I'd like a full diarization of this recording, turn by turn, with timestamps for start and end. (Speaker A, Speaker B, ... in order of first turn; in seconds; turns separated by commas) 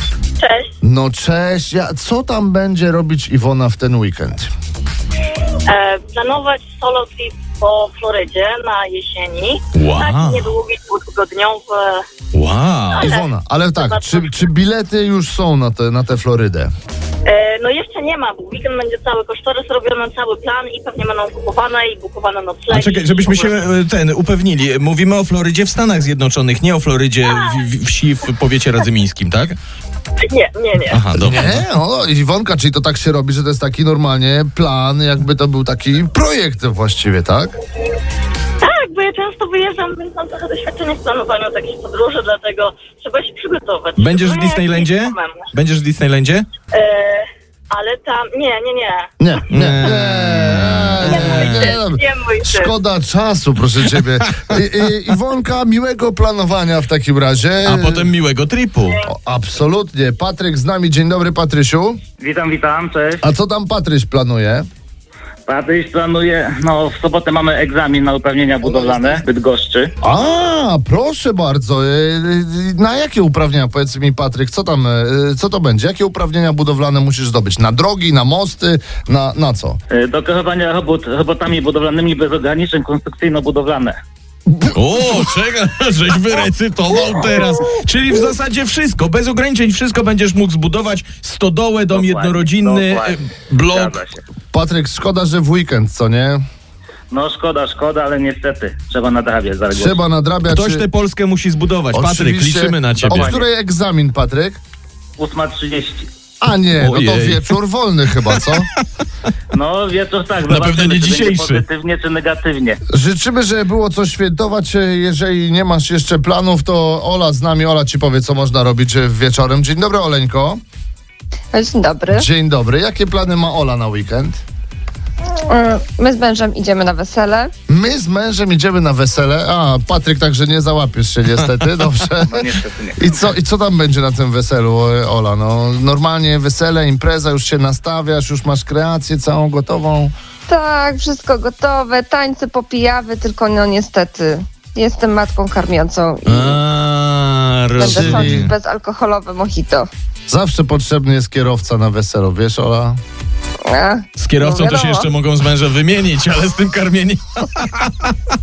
Speaker A: 0.4-0.7, Speaker B: 0.8-4.5, Speaker A: 5.7-12.0, Speaker C: 9.7-10.5, Speaker C: 12.3-13.1, Speaker A: 12.9-14.5, Speaker B: 13.0-16.7, Speaker A: 17.2-23.6, Speaker C: 22.7-29.6, Speaker A: 27.2-27.6, Speaker A: 30.2-31.0, Speaker C: 30.9-31.6, Speaker B: 31.1-37.5, Speaker A: 38.6-45.5, Speaker C: 44.0-46.5, Speaker A: 46.7-49.1, Speaker B: 49.2-58.1, Speaker C: 49.5-51.8, Speaker A: 51.0-52.7, Speaker C: 53.9-54.2, Speaker C: 57.6-59.0, Speaker B: 59.0-62.0, Speaker D: 62.2-63.2, Speaker B: 63.2-64.7, Speaker D: 65.5-69.9, Speaker B: 68.6-69.2, Speaker B: 70.0-79.8, Speaker D: 79.9-84.0, Speaker C: 84.6-93.9, Speaker D: 91.9-94.2, Speaker B: 94.5-96.4, Speaker D: 97.1-100.0, Speaker B: 99.7-100.8, Speaker C: 100.5-103.3, Speaker B: 101.9-104.6, Speaker D: 103.0-103.5, Speaker D: 105.2-106.1, Speaker B: 106.4-108.7, Speaker C: 106.8-107.5, Speaker C: 108.2-108.8, Speaker D: 109.5-112.8, Speaker C: 110.5-111.6, Speaker B: 112.9-120.6, Speaker E: 121.5-122.2, Speaker B: 122.1-124.4, Speaker E: 125.5-127.5, Speaker B: 127.7-140.1, Speaker D: 132.2-133.0, Speaker E: 140.5-146.6, Speaker C: 146.2-148.5, Speaker E: 147.8-149.9, Speaker B: 147.8-148.5, Speaker B: 150.3-153.0, Speaker E: 153.7-155.1, Speaker C: 154.2-158.1